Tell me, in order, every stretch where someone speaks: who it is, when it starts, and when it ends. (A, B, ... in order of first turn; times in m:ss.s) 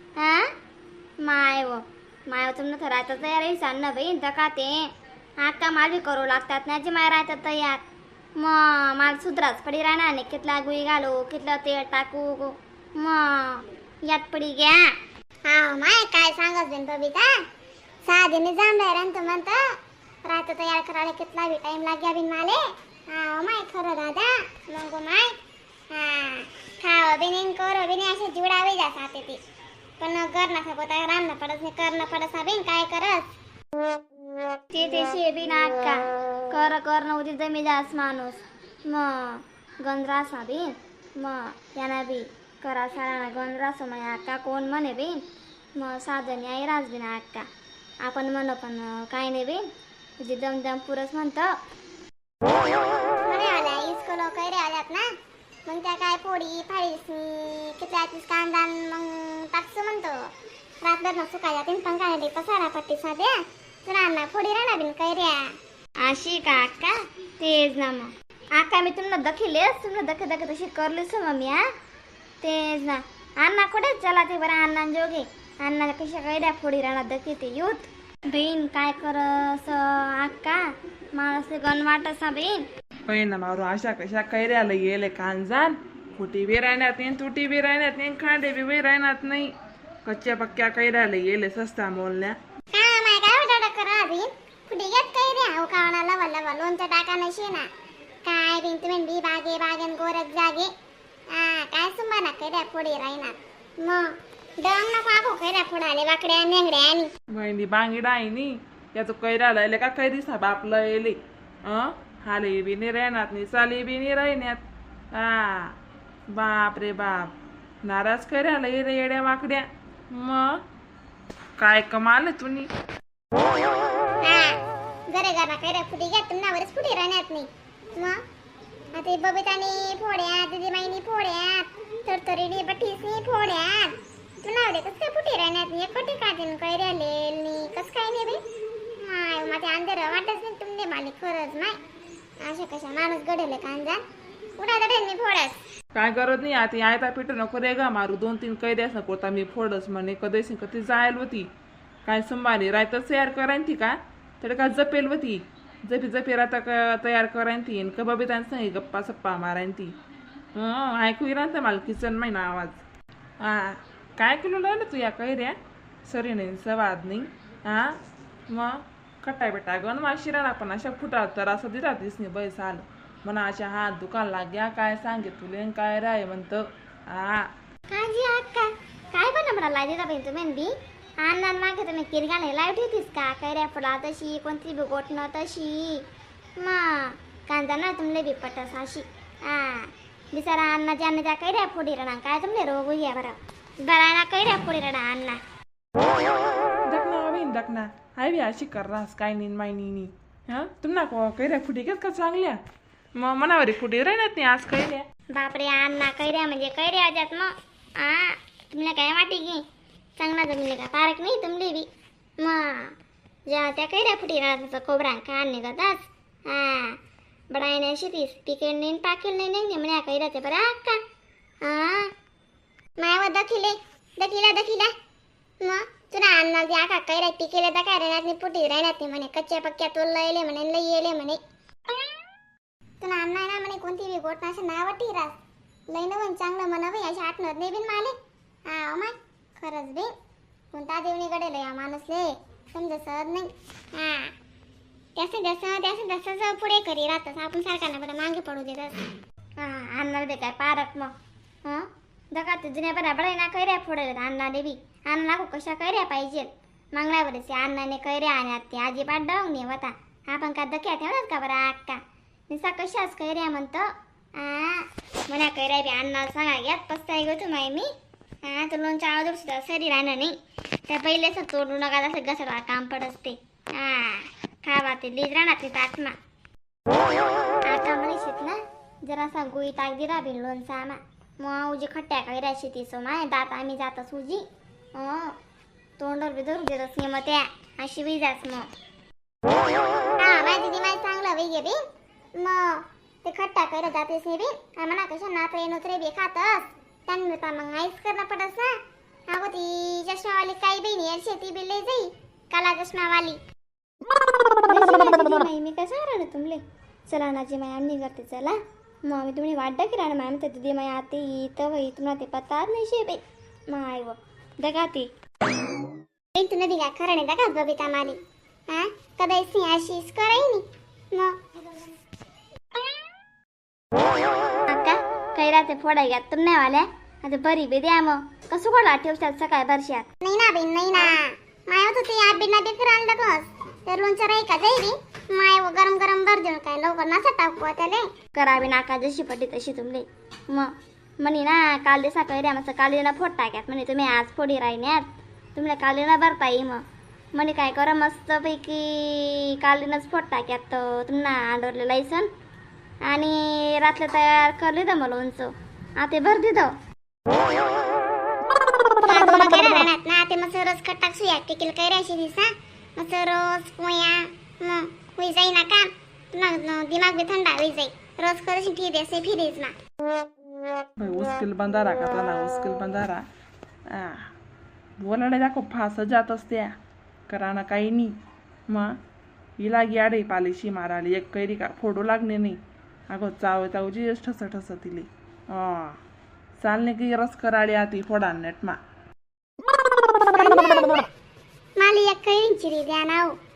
0:00.2-0:00.5 A
0:01.2-0:04.8 A
0:05.4-0:07.8 A
0:08.4-0:14.8 A
0:15.5-0:17.3 B
0:18.0-0:19.6 B
0:20.2-0:25.4 B
0:25.9-0:29.4 B
0:30.0-0:33.2 B
0:34.7-0:45.2 A
0:45.8-0:47.4 A
0:48.0-0:49.6 A
0:50.2-0:51.5 A
0:53.3-0:55.0 B
0:55.7-1:00.2 B
1:00.8-1:05.4 B
1:06.0-1:11.6 A
1:12.4-1:20.6 A
1:21.1-1:22.6 A
1:23.1-1:29.5 C
1:30.0-1:32.4 C
1:32.7-1:37.7 B
1:38.2-1:40.7 B
1:41.3-1:47.1 B
1:47.3-1:54.6 C
1:55.1-1:55.7 C
1:56.3-2:00.6 C
2:01.6-2:02.7 C
2:04.2-2:08.2 B
2:08.9-2:18.4 B
2:19.0-2:21.8 B
2:22.4-2:24.0 B
2:24.6-2:25.6 B
2:25.9-2:31.5 C
2:32.0-2:39.9 C
2:40.5-2:42.8 C
2:43.4-2:47.9 C
2:48.5-2:57.4 C
2:57.9-3:06.0 A
3:06.6-3:15.4 A
3:16.8-3:22.6 C
3:23.2-3:25.0 C
3:25.3-3:29.6 A
3:30.2-3:31.9 A
3:32.4-3:32.9 A
3:33.5-3:37.0 A
3:37.5-3:41.0 A
3:41.6-3:42.1 A
3:43.0-3:44.9 B
3:45.6-3:51.4 B
3:53.0-3:55.4 B
3:55.9-3:58.1 B
3:58.7-4:00.1 B
4:00.7-4:04.3 B
4:05.2-4:09.0 B
4:09.6-4:27.9 A
4:28.4-4:30.3 A
4:30.9-4:36.2 A
4:37.6-4:44.4 A
4:44.9-4:45.3 A
4:46.0-4:48.7 A
4:50.2-4:51.8 B
4:52.4-4:58.7 B
4:59.3-5:03.4 B
5:04.5-5:15.1 A
5:16.3-5:18.2 B
5:18.7-5:21.4 B
5:24.7-5:30.1 A
5:30.2-5:38.1 B
5:38.3-5:40.7 A
5:41.2-5:46.8 A
5:47.3-5:52.3 A
5:53.0-5:56.7 A
5:59.0-6:09.7 B
6:11.0-6:13.2 C
6:13.9-6:14.3 C
6:15.0-6:16.7 C
6:17.3-6:18.1 C
6:19.6-6:22.6 C
6:23.1-6:26.0 C
6:26.6-6:28.8 C
6:30.1-6:31.1 B
6:31.8-6:33.4 B